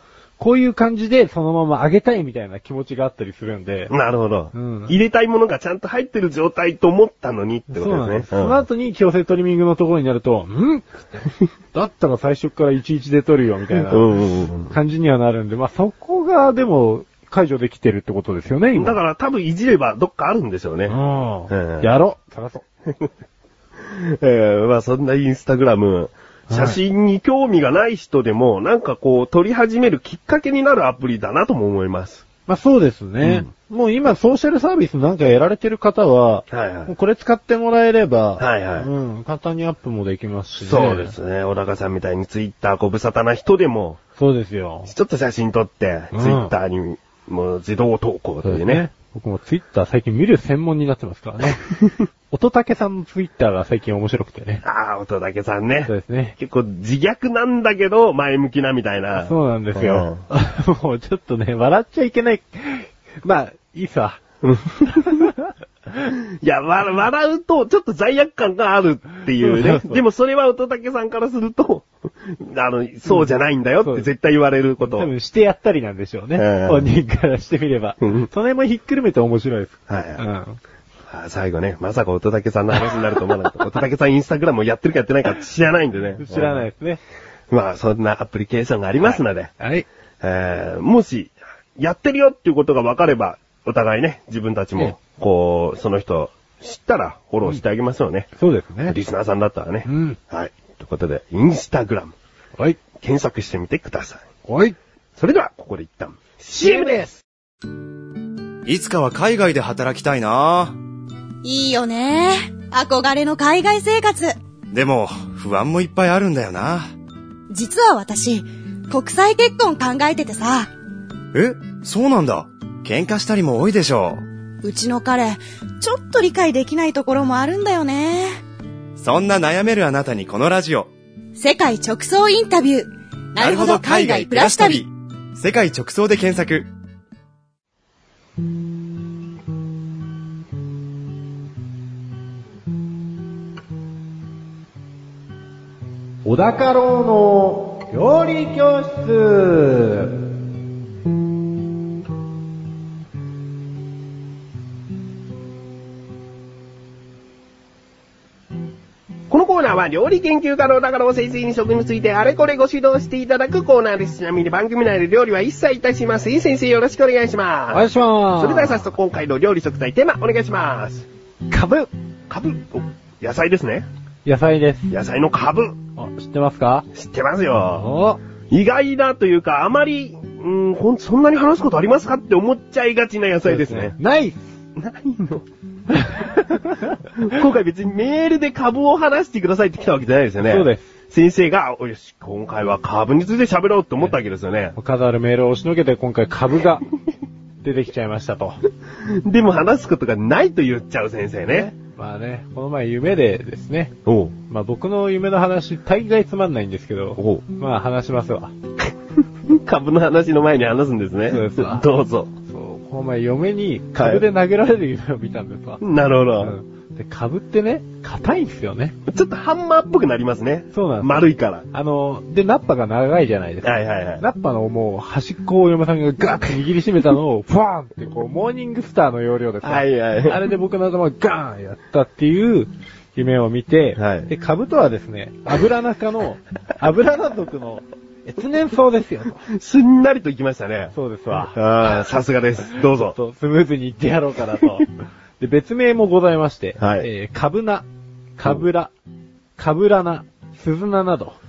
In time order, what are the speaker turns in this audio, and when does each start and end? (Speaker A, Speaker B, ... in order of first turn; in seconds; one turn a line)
Speaker A: 0.4-3.9
Speaker B: 3.9-8.6
Speaker A: 4.5-4.9
Speaker A: 7.7-14.1
Speaker B: 13.8-14.7
Speaker A: 14.7-19.0
Speaker B: 18.7-20.9
Speaker A: 20.9-22.6
Speaker B: 21.5-21.9
Speaker B: 23.8-32.2
Speaker A: 26.5-26.8
Speaker A: 32.5-41.1
Speaker B: 33.2-33.5
Speaker B: 36.5-36.9
Speaker B: 38.4-38.9
Speaker B: 40.6-44.0
Speaker A: 44.2-44.9
Speaker B: 44.9-48.9
Speaker A: 46.1-46.5
Speaker A: 48.4-51.6
Speaker A: 52.3-54.6
Speaker B: 54.6-60.2
Speaker A: 55.9-56.4
Speaker A: 59.1-64.2
Speaker B: 64.4-65.3
Speaker A: 64.8-65.5
Speaker B: 66.3-75.1
Speaker A: 69.3-70.0
Speaker A: 73.8-74.1
Speaker A: 74.8-80.6
Speaker B: 76.3-76.9
Speaker B: 78.0-78.3
Speaker B: 79.9-80.2
Speaker B: 81.1-86.7
Speaker A: 86.2-87.0
Speaker B: 87.5-89.5
Speaker A: 89.0-89.9
Speaker B: 90.2-98.3
Speaker A: 98.4-99.0
Speaker B: 98.8-102.1
Speaker A: 99.8-100.2
Speaker B: 103.0-104.2
Speaker A: 104.5-104.8
Speaker B: 105.2-107.0
Speaker A: 106.5-107.2
Speaker C: 108.7-110.8
Speaker D: 111.4-114.3
Speaker C: 114.7-116.9
Speaker D: 117.5-120.7
Speaker C: 121.3-124.2
Speaker D: 124.6-128.4
Speaker C: 129.0-130.9
Speaker D: 131.4-134.8
Speaker C: 133.4-136.7
Speaker A: 146.2-150.2
Speaker B: 159.3-171.1
Speaker A: 167.7-168.9
Speaker A: 171.5-171.9
Speaker B: 172.3-173.8
Speaker A: 174.2-174.9
Speaker B: 174.9-175.8
Speaker A: 175.9-176.9
Speaker B: 176.9-177.9
Speaker A: 177.8-178.2
Speaker B: 178.5-183.9
Speaker A: 183.4-184.4
Speaker B: 184.8-185.4
Speaker A: 185.9-187.0
Speaker B: 187.1-194.7
Speaker A: 190.4-190.8
Speaker A: 194.8-196.8
Speaker A: 197.6-198.6
Speaker B: 199.0-201.7
Speaker A: 201.5-203.9
Speaker B: 204.1-204.3
Speaker A: 204.5-208.5
Speaker B: 207.2-207.4
Speaker B: 209.4-212.3
Speaker A: 211.3-211.9
Speaker A: 212.5-215.8
Speaker B: 213.9-214.2
Speaker B: 215.8-216.5
Speaker A: 216.4-218.9
Speaker B: 219.1-221.7
Speaker A: 220.7-239.4
Speaker B: 223.6-224.2
Speaker B: 229.6-230.4
Speaker B: 233.9-234.3
Speaker B: 239.5-243.2
Speaker A: 240.9-241.6
Speaker A: 242.7-244.9
Speaker A: 245.4-247.8
Speaker B: 246.8-247.1
Speaker A: 248.4-248.9
Speaker A: 249.6-251.4